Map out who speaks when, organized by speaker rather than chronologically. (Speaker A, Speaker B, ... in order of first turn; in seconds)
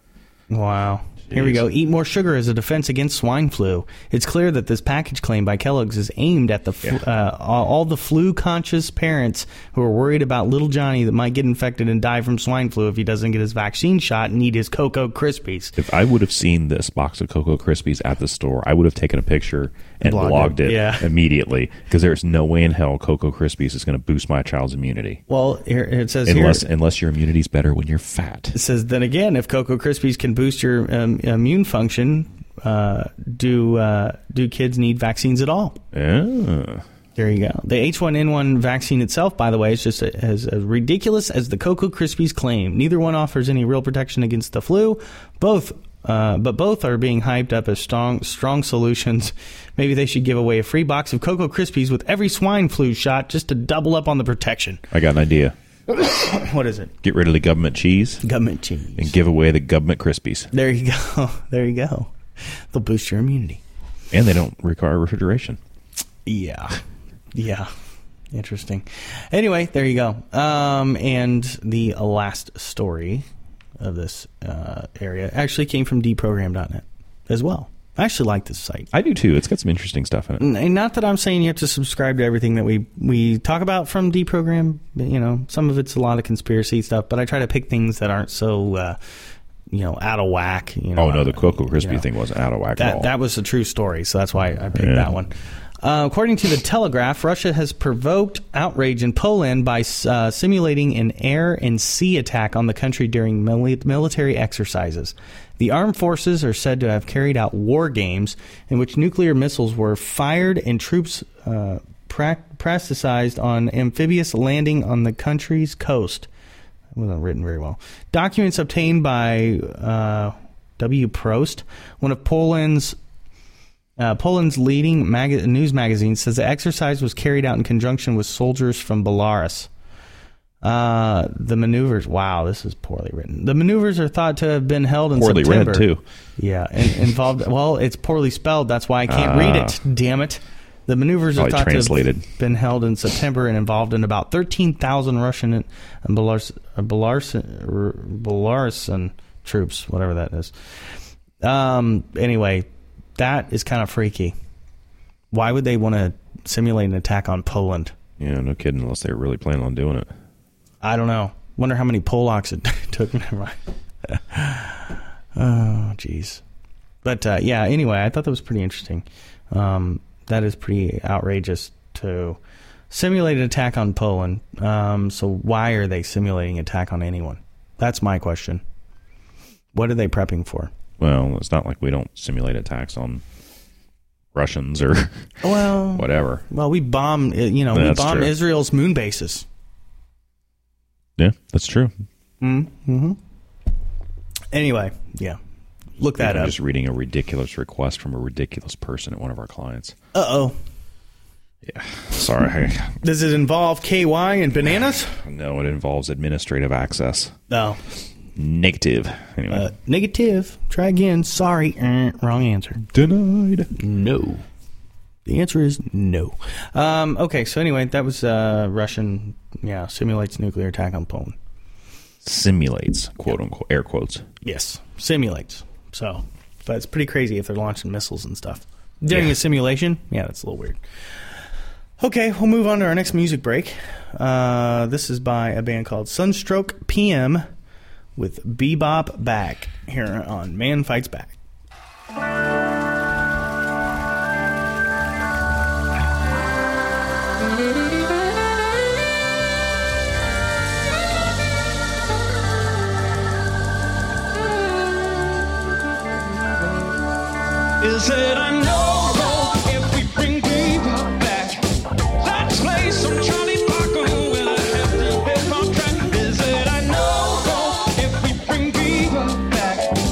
Speaker A: 0.5-15.8, 20.0-21.1, 25.3-26.7, 28.5-35.8, 37.1-54.8, 55.9-56.9, 58.2-59.1, 60.5-63.6, 66.2-66.8, 67.3-67.7, 68.3-73.2, 73.8-78.9, 80.4-89.0, 89.7-92.0, 92.8-116.3, 116.9-123.0, 124.0-129.7, 130.6-150.5, 151.4-154.3, 155.3-157.9, 160.8-166.4, 167.0-178.6, 179.7-180.7, 185.4-189.4, 192.4-193.2, 194.5-195.4, 196.0-196.5, 200.1-200.6, 203.0-205.2, 207.5-207.8, 209.5-212.8, 213.8-214.4, 215.2-221.3, 224.4-230.8, 232.0-237.4, 238.2-241.3
Speaker B: 1.3-1.6, 15.8-25.2, 26.2-28.6, 35.9-36.8, 54.9-55.5, 57.0-58.2, 59.0-60.5, 64.1-65.6, 78.9-80.5, 91.0-93.1, 94.7-95.1, 135.1-136.0, 139.1-139.8, 141.3-142.2, 158.2-160.1, 181.0-183.2, 184.3-186.4, 187.7-188.3, 191.2-191.9, 196.2-199.9, 201.6-203.0, 205.2-207.3, 208.3-209.7, 212.8-213.7, 222.2-224.2
Speaker C: 257.8-261.6, 262.2-269.9